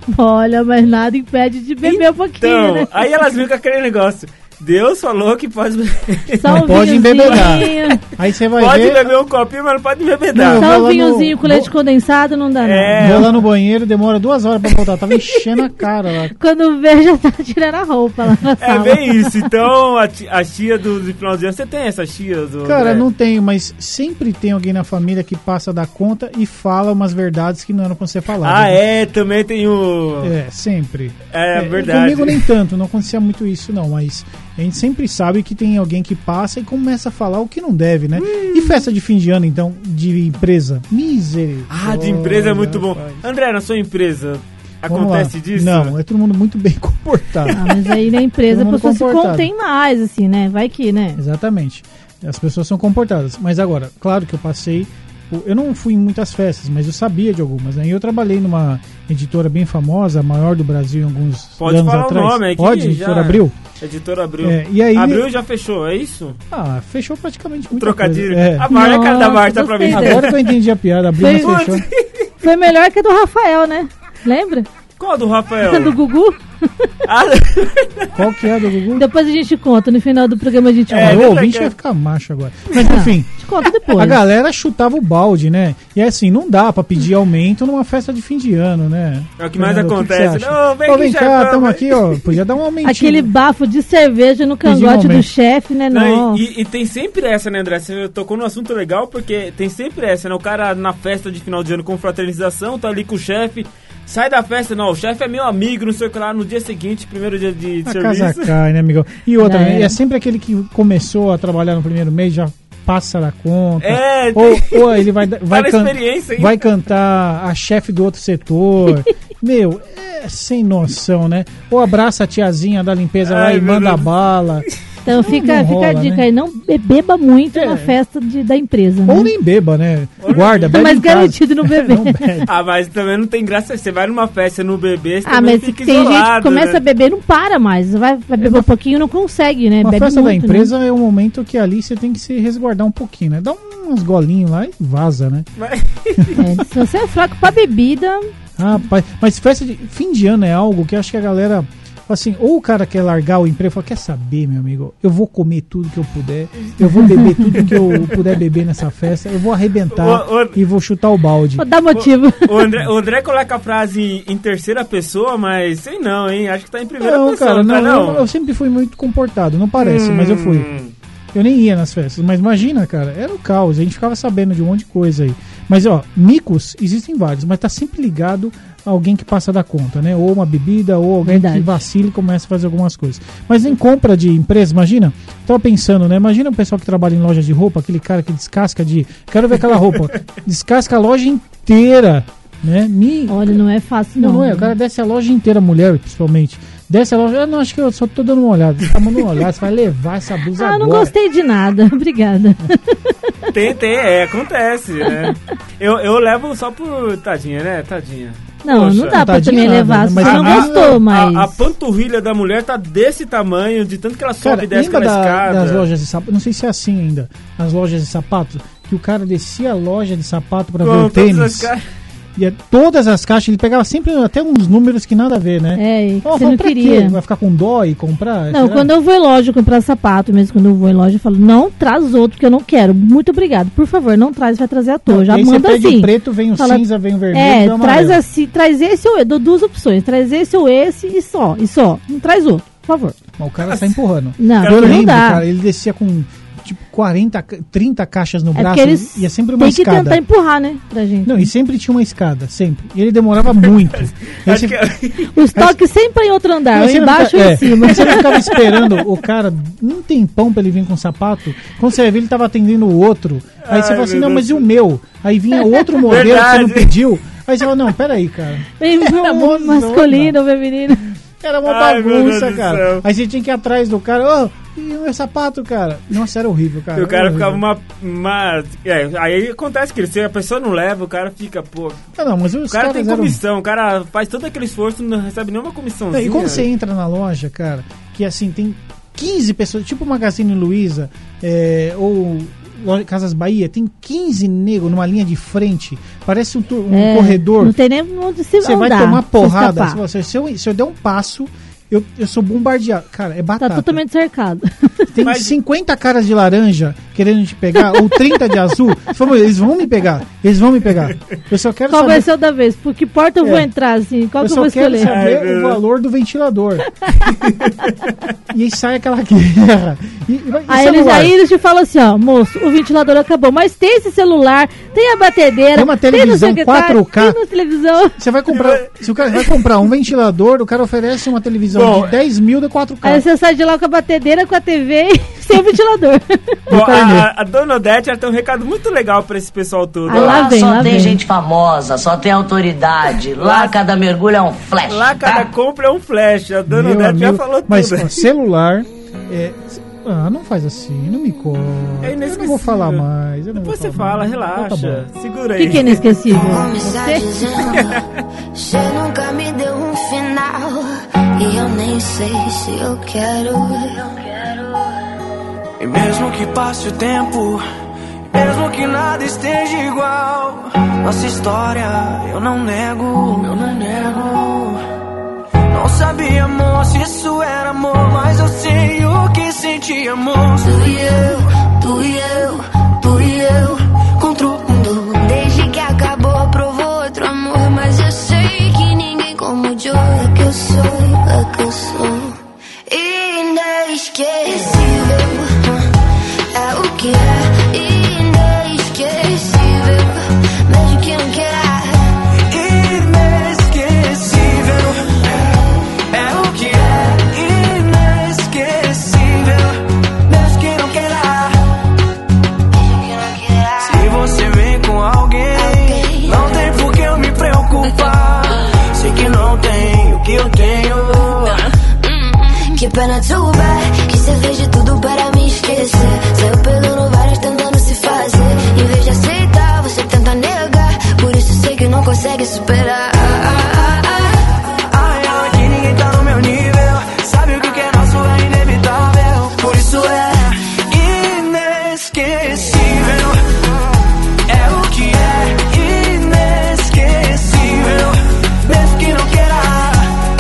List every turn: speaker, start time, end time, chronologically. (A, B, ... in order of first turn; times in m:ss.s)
0:00.1-0:03.1 A
0:01.8-0:07.6 B
0:06.4-0:08.0 A
0:06.4-0:09.1 C
0:08.6-0:10.6 B
0:10.3-0:11.7 C
0:10.6-0:13.3 A
0:12.6-0:13.4 B
0:13.0-0:16.3 C
0:16.4-0:19.3 A
0:18.6-0:23.0 B
0:22.6-0:28.8 C
0:28.4-0:30.3 B
0:30.2-0:43.2 C
0:31.3-0:32.5 B
0:38.2-0:38.8 B
0:41.7-0:45.9 B
0:44.9-0:48.0 C
0:47.5-0:51.2 A
0:48.5-0:49.5 C
0:51.2-1:03.6 C
1:01.6-1:06.4 B
1:04.4-1:05.3 C
1:06.5-1:08.7 C
1:07.8-1:10.5 B
1:08.7-1:10.3 A
1:09.9-1:11.8 C
1:11.2-1:11.6 A
1:11.4-1:12.3 B
1:12.4-1:14.7 A
1:15.0-1:16.0 B
1:15.6-1:16.4 A
1:17.0-1:18.1 B
1:18.1-1:19.0 C
1:19.0-1:21.3 A
1:20.9-1:21.7 B
1:21.0-1:23.3 C
1:22.8-1:24.2 A
1:23.9-1:33.3 C
1:29.4-1:32.1 B
1:32.8-1:36.4 A
1:34.6-1:35.3 C
1:35.9-1:48.6 B
1:47.8-2:04.7 C
1:49.4-1:49.9 A
1:53.8-1:56.7 B
2:03.2-2:04.1 B
2:05.0-2:09.3 A
2:05.2-2:06.2 C
2:07.5-2:08.0 C
2:09.1-2:12.5 C
2:10.2-2:10.7 B
2:10.7-2:12.4 A
2:12.5-2:16.8 B
2:15.3-2:20.7 A
2:19.8-2:25.5 C
2:25.6-2:26.4 B
2:26.2-2:26.5 C
2:26.4-2:28.3 A
2:28.6-2:41.7 C
2:37.1-2:37.5 A
2:37.4-2:38.4 B
2:39.9-2:40.6 B
2:41.6-2:42.6 A
2:41.9-2:48.2 B
2:47.0-2:50.7 C
2:49.8-2:50.9 B
2:51.3-3:13.6 C
3:01.2-3:01.8 A
3:13.3-3:14.7 A
3:14.2-3:21.1 C
3:20.6-3:23.1 A
3:23.5-3:29.2 B
3:28.6-3:31.6 A
3:29.1-3:31.0 C
3:30.2-3:35.9 B
3:34.4-3:41.7 C
3:40.8-3:41.8 B
3:42.4-3:48.9 C
3:45.8-3:47.2 A
3:48.5-4:03.2 A
3:55.1-3:58.2 C
4:03.4-4:10.2 C
4:03.7-4:04.0 B
4:04.4-4:05.4 A
4:04.6-4:05.1 B
4:08.6-4:11.5 A
4:11.2-4:14.8 C
4:13.6-4:15.3 B
4:15.4-4:18.5 A
4:16.7-4:30.4 C
4:18.1-4:19.0 B
4:23.6-4:24.6 B
4:26.0-4:27.0 B
4:28.8-4:31.1 A
4:31.4-4:37.6 C
4:31.6-4:33.0 B
4:37.0-4:42.0 B
4:42.2-4:43.4 C
4:42.7-4:46.7 B
4:46.1-4:57.8 C
4:56.9-5:00.0 A
4:58.6-5:04.0 C
5:03.6-5:05.0 A
5:05.1-5:12.3 C
5:05.2-5:05.5 B
5:11.9-5:15.1 A
5:13.4-5:13.7 C
5:14.4-5:16.9 C
5:15.0-5:15.8 B
5:17.3-5:18.1 B
5:18.5-5:21.4 C
5:20.7-5:28.2 A
5:25.8-5:27.4 C
5:28.2-5:33.2 C
5:28.5-5:29.4 B
5:31.7-5:32.2 B
5:33.0-5:36.6 A
5:36.7-5:37.3 C
5:36.7-5:41.0 B
5:40.1-5:41.2 A
5:40.1-5:45.5 D
5:43.4-5:43.8 B
5:44.9-5:48.3 B
5:46.7-5:55.1 C
5:52.0-5:53.0 B
5:53.6-5:56.0 B
5:55.6-5:57.2 A
5:56.4-6:04.8 E
5:57.7-5:58.0 B
6:05.8-6:07.6 F
6:08.3-6:14.8 F
6:15.7-6:20.6 F
6:20.6-6:23.8 E
6:24.2-6:25.1 F
6:24.7-6:35.9 E
6:36.5-6:42.1 E
6:42.5-6:45.3 F
6:46.1-6:51.6 F
6:52.8-6:54.1 E
6:53.8-7:01.7 F
6:55.5-6:56.6 E
7:02.0-7:14.4 E
7:14.9-7:23.4 F
7:24.5-7:30.1 F